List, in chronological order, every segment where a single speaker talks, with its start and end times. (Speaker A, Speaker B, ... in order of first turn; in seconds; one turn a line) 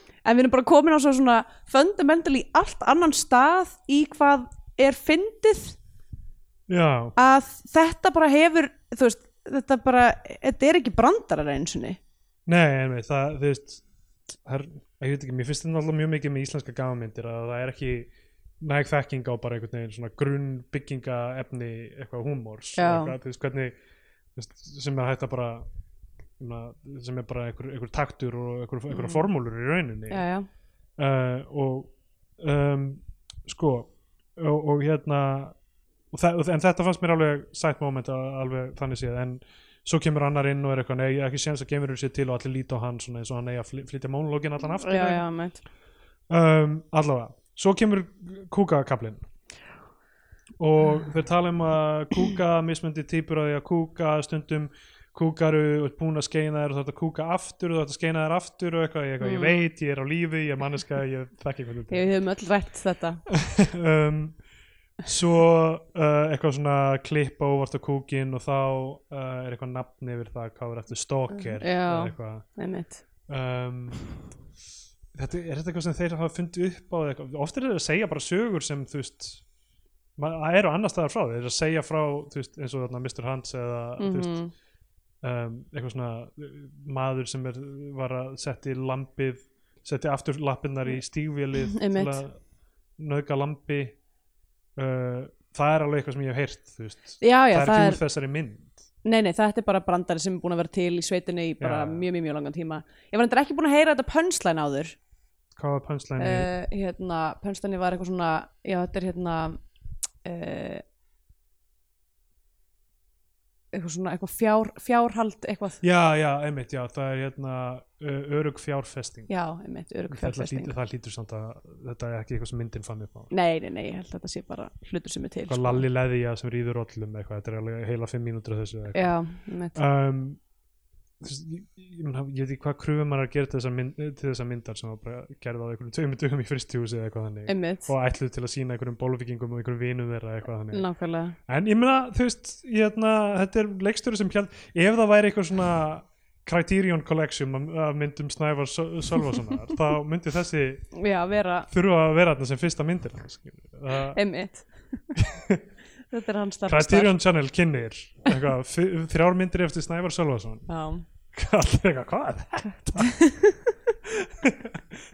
Speaker A: 0.2-5.8
Speaker B: 6.7-7.1
Speaker A: 7.2-12.0
Speaker B: 12.4-13.8
Speaker B: 14.4-18.1
Speaker B: 18.6-23.7
Speaker A: 22.8-23.1
Speaker B: 24.4-25.6
Speaker B: 26.4-30.2
Speaker A: 28.9-29.2
Speaker A: 30.1-30.5
Speaker B: 31.0-35.5
Speaker B: 36.1-45.2
Speaker A: 44.8-45.6
Speaker B: 46.3-49.3
Speaker B: 50.6-62.1
Speaker A: 59.2-59.6
Speaker A: 61.9-63.2
Speaker B: 63.3-64.4
Speaker B: 65.0-72.5
Speaker A: 71.3-73.0
Speaker B: 73.3-74.0
Speaker B: 75.1-79.4
Speaker B: 80.2-84.4
Speaker A: 84.0-84.5
Speaker B: 85.2-92.4
Speaker A: 91.7-92.2
Speaker B: 93.0-94.0
Speaker B: 94.8-98.8
Speaker A: 97.2-98.0
Speaker A: 99.0-105.0
Speaker B: 101.6-102.0
Speaker B: 105.6-106.5
Speaker A: 106.2-109.6
Speaker A: 110.2-110.8
Speaker A: 113.7-115.8
Speaker B: 115.8-119.3
Speaker A: 119.3-120.7
Speaker B: 120.1-123.3
Speaker A: 123.3-125.8
Speaker B: 125.5-129.2
Speaker A: 128.9-129.8
Speaker B: 129.7-130.4
Speaker B: 131.2-140.8
Speaker A: 137.5-137.9
Speaker A: 140.7-141.3
Speaker B: 141.5-150.9
Speaker A: 150.9-151.7
Speaker B: 151.7-154.2
Speaker A: 154.1-155.0
Speaker B: 155.1-155.6
Speaker A: 156.1-157.1
Speaker B: 156.7-160.7
Speaker A: 160.7-161.0
Speaker B: 161.3-163.2
Speaker A: 163.0-163.7
Speaker B: 164.0-164.8